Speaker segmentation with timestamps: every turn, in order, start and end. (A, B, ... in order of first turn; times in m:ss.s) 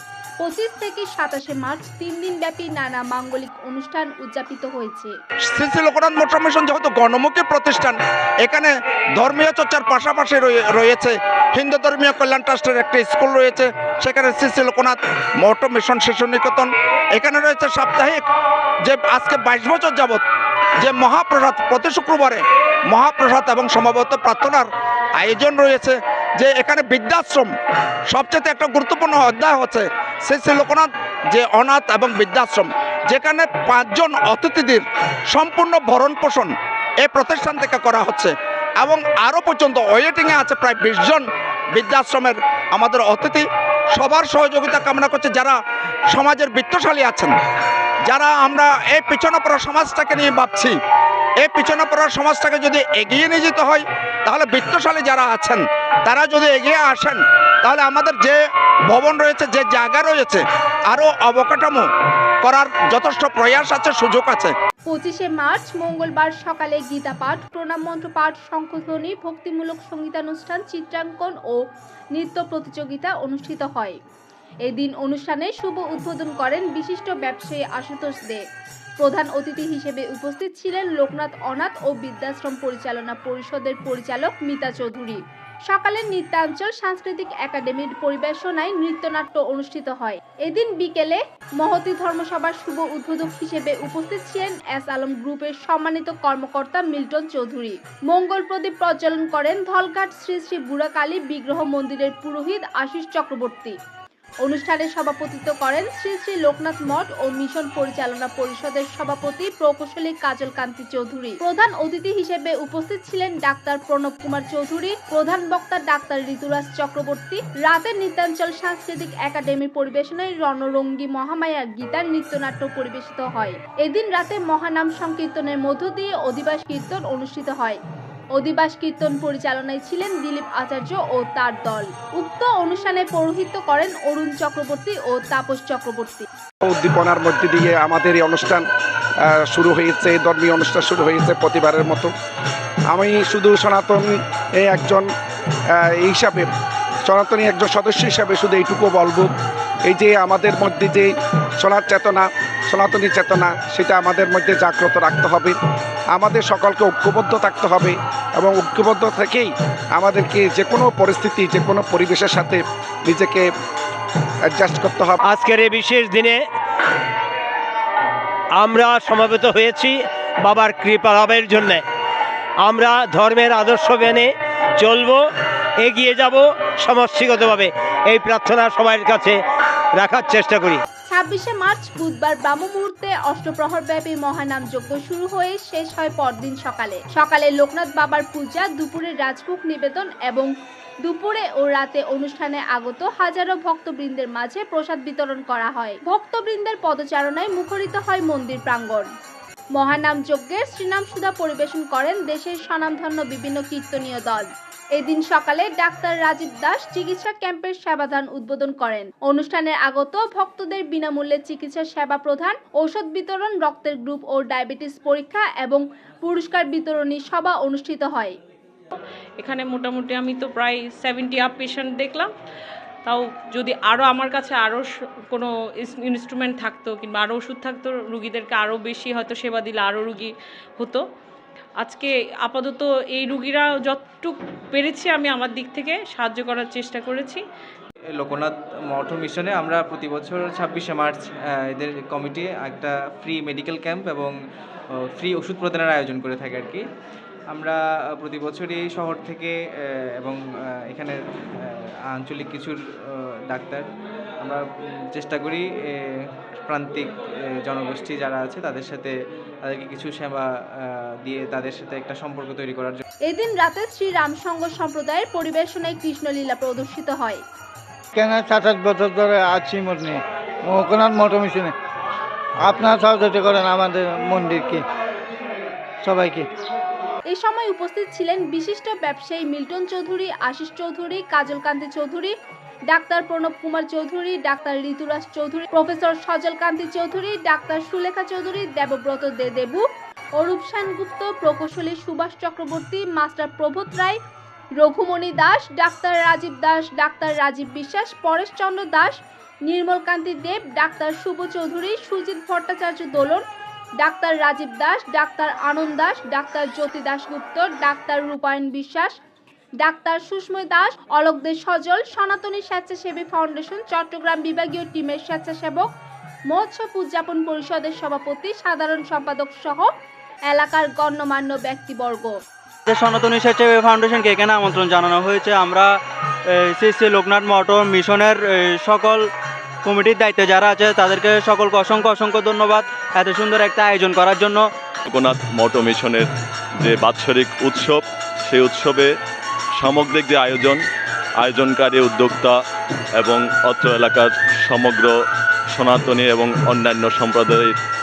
0:00.4-0:05.1 A
0:05.5-0:18.2 B
0:18.8-0:20.2 B
0:20.8-0:27.5 B
0:28.1-0:41.2 B
0:41.8-0:45.6 B
0:46.1-0:47.3 B
0:48.1-0:50.8 B
0:51.4-0:58.4 B
0:58.9-1:01.9 B
1:02.4-1:04.5 B
1:04.9-1:11.6 A
1:12.1-1:14.0 A
1:14.6-1:18.4 A
1:19.0-1:43.8 A
1:44.4-2:07.8 A
2:08.3-2:16.3 A
2:16.6-2:18.6 C
2:19.5-2:22.1 C
2:22.9-2:25.1 C
2:25.7-2:26.5 C
2:27.1-2:29.3 C
2:29.8-2:35.6 C
2:36.1-2:43.5 C
2:44.5-2:45.2 C
2:45.2-2:46.4 D
2:48.6-2:51.8 D
2:52.6-2:55.2 D
2:55.8-2:59.4 D
3:00.0-3:00.8 D
3:01.1-3:10.5 A
3:11.0-3:19.1 A
3:19.8-3:24.5 A
3:25.0-3:38.3 A
3:39.4-3:42.3 E
3:43.0-3:51.0 E
3:51.8-3:57.4 E
3:58.2-4:04.3 F
4:04.9-4:06.8 F
4:07.5-4:13.9 F
4:14.4-4:23.0 F
4:23.3-4:27.4 A
4:28.1-4:31.7 G
4:32.6-4:34.8 G
4:36.0-4:36.5 G
4:37.3-4:42.3 A
4:42.9-4:49.8 A
4:50.4-4:54.2 A
4:54.8-5:03.4 A
5:04.0-5:09.2 A
5:09.8-5:15.9 A
5:16.5-5:19.9 A
5:20.5-5:22.3 A
5:22.9-5:29.3 H
5:29.8-5:34.7 H
5:35.0-5:36.3 I
5:36.8-5:39.1 I
5:39.8-5:40.8 I
5:41.4-5:42.6 I
5:43.2-5:45.1 I
5:45.7-5:47.7 I